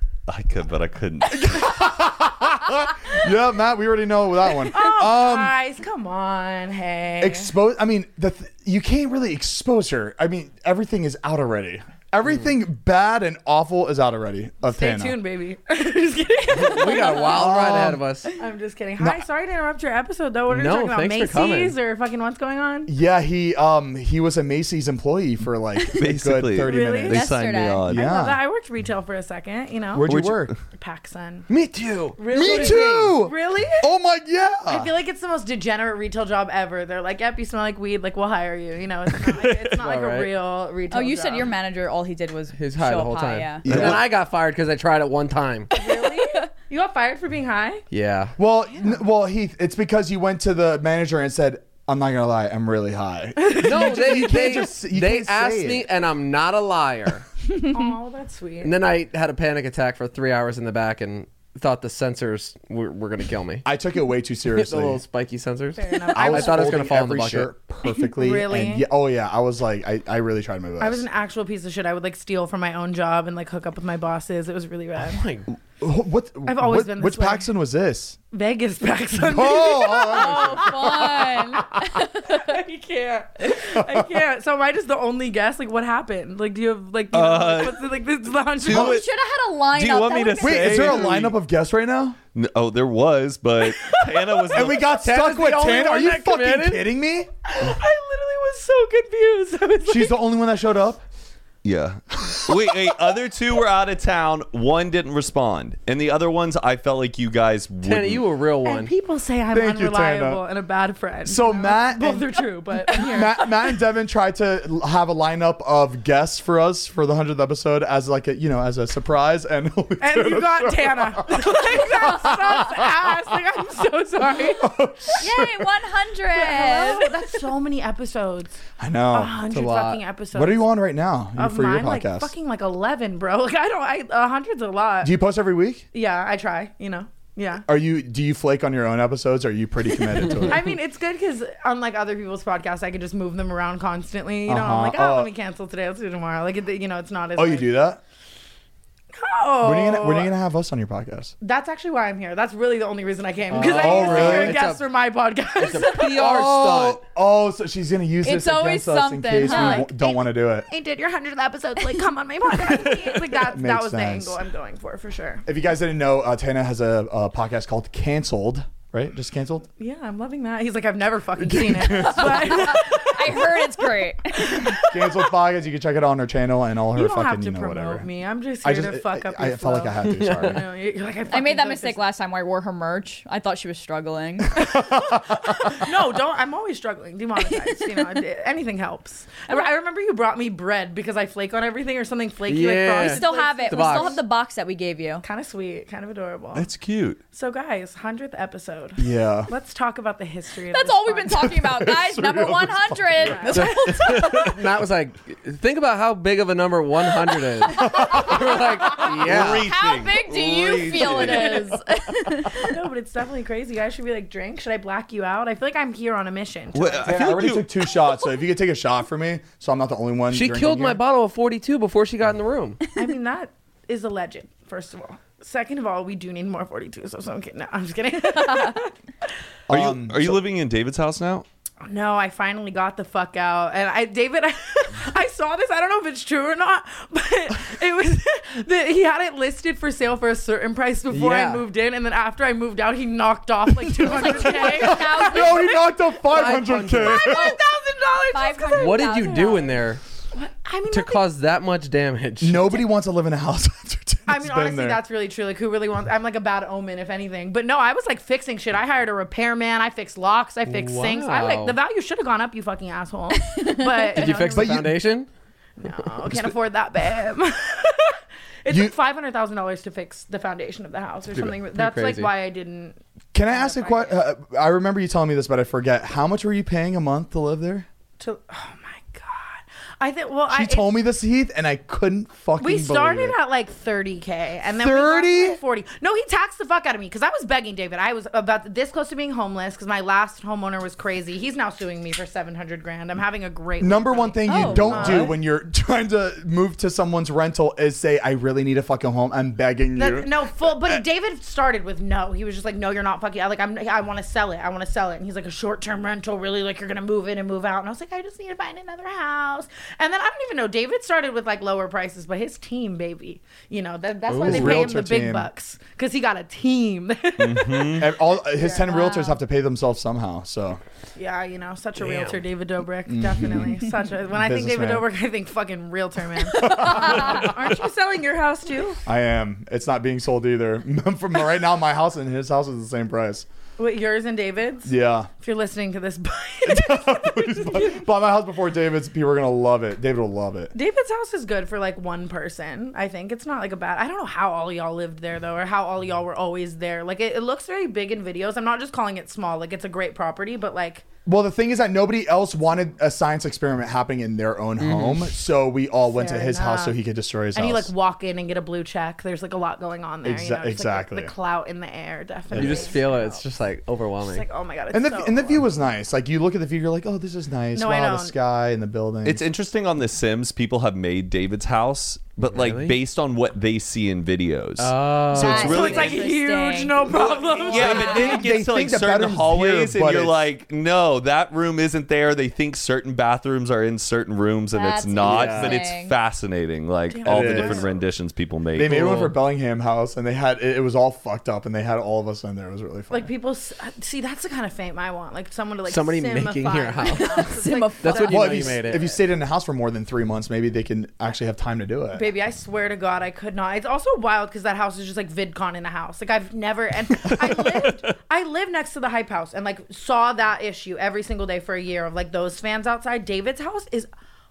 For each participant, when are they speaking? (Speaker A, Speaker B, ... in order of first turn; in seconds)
Speaker A: 0.3-1.8, 25.9-28.1, 30.1-30.6, 43.7-44.0, 87.1-87.8, 88.7-89.1, 89.7-91.3, 92.3-94.9, 101.6-108.2, 196.6-197.2, 209.0-211.6, 216.7-217.7, 229.7-231.5, 317.4-318.1, 369.2-376.2, 377.7-389.3
Speaker B: 1.3-5.5, 7.2-15.2, 17.3-18.0, 22.9-27.2, 27.9-28.4, 29.9-30.5, 32.2-34.9, 43.6-44.0, 48.4-55.9, 63.6-65.0, 66.1-71.1, 75.8-78.2, 79.2-81.2, 83.6-84.1, 88.7-89.0, 90.4-92.2, 94.5-97.3, 99.9-101.0, 109.5-110.4, 111.2-112.3, 112.9-123.1, 124.6-125.7, 128.8-132.3, 135.0-135.8, 137.7-140.7, 144.5-145.3, 147.4-148.0, 149.6-151.3, 153.5-154.6, 156.0-160.7, 162.7-164.4, 165.4-169.7, 171.4-172.8, 174.7-178.1, 178.6-180.6, 184.7-185.6, 199.0-199.5, 201.3-203.4, 207.7-208.6, 217.0-221.0, 229.7-230.4, 244.1-247.6, 252.4-255.0, 264.5-265.0, 266.3-266.6, 268.7-268.9, 273.3-277.9, 280.5-283.4, 284.8-285.6, 293.8-301.0, 314.4-315.5, 318.0-320.8, 323.1-325.1, 326.5-327.7, 329.1-333.5, 334.9-335.3, 336.6-340.7, 351.3-357.9, 360.2-361.3, 362.5-363.0, 364.9-369.4, 377.8-380.4, 387.2-387.9, 388.8-393.3, 398.2-402.3
Speaker C: 4.7-7.5, 14.7-17.6, 18.4-22.9, 26.6-27.2, 27.9-30.1, 30.7-31.5, 32.2-33.9, 34.7-41.5, 45.7-47.8, 53.4-54.6, 57.6-58.7, 65.8-66.8, 67.9-68.9, 70.8-75.2, 76.5-77.5, 78.3-81.3, 82.2-89.0, 93.7-94.5, 97.5-100.1, 108.6-113.8, 120.0-124.7, 126.3-128.6, 129.1-130.7, 131.4-135.1, 135.9-137.7, 140.4-147.7, 149.1-150.3, 151.4-156.2, 159.4-165.4, 169.8-173.6, 174.3-175.2, 176.9-182.0, 184.6-194.2, 195.2-196.7, 197.3-201.5, 203.2-204.5, 211.0-211.7, 212.5-217.2, 222.9-228.9, 231.8-246.2, 246.9-251.2, 254.3-265.0, 265.8-274.2, 278.2-281.0, 282.6-295.4, 300.0-319.2, 321.2-329.0, 333.8-338.1, 340.7-351.1, 356.1-357.0, 357.6-363.4, 364.2-365.7, 367.7-368.4, 375.5-378.4, 387.1-388.0, 393.1-399.1, 402.1-414.1
Speaker D: 16.5-18.3, 20.5-21.8, 32.3-33.1, 39.3-40.3, 42.5-45.8, 47.9-48.4, 53.6-57.3, 58.6-63.7, 64.5-67.5, 75.0-75.5, 94.8-96.8, 107.8-108.9, 153.5-154.8, 155.6-157.0, 180.0-180.6, 192.5-194.2, 203.5-209.7, 220.3-222.8, 241.1-241.7, 246.2-247.3, 248.8-250.0, 250.9-252.8, 260.7-261.8, 264.0-265.3, 271.3-272.3, 314.3-315.0, 322.0-322.4, 354.8-355.3, 362.5-364.5, 372.5-373.0, 374.8-376.0, 385.3-385.7, 388.8-389.3, 395.9-397.4, 398.0-399.1
Speaker E: 27.1-27.8, 40.9-43.7, 46.0-46.4, 80.0-82.6, 88.7-91.0, 125.2-127.1, 158.2-159.9, 172.1-174.8, 181.3-184.6, 193.0-195.2, 200.7-204.4, 209.3-212.7, 244.1-245.8, 247.2-247.6, 248.3-249.7, 263.5-263.9, 294.5-295.3, 318.9-319.3, 375.3-378.4, 384.7-386.1, 397.1-398.4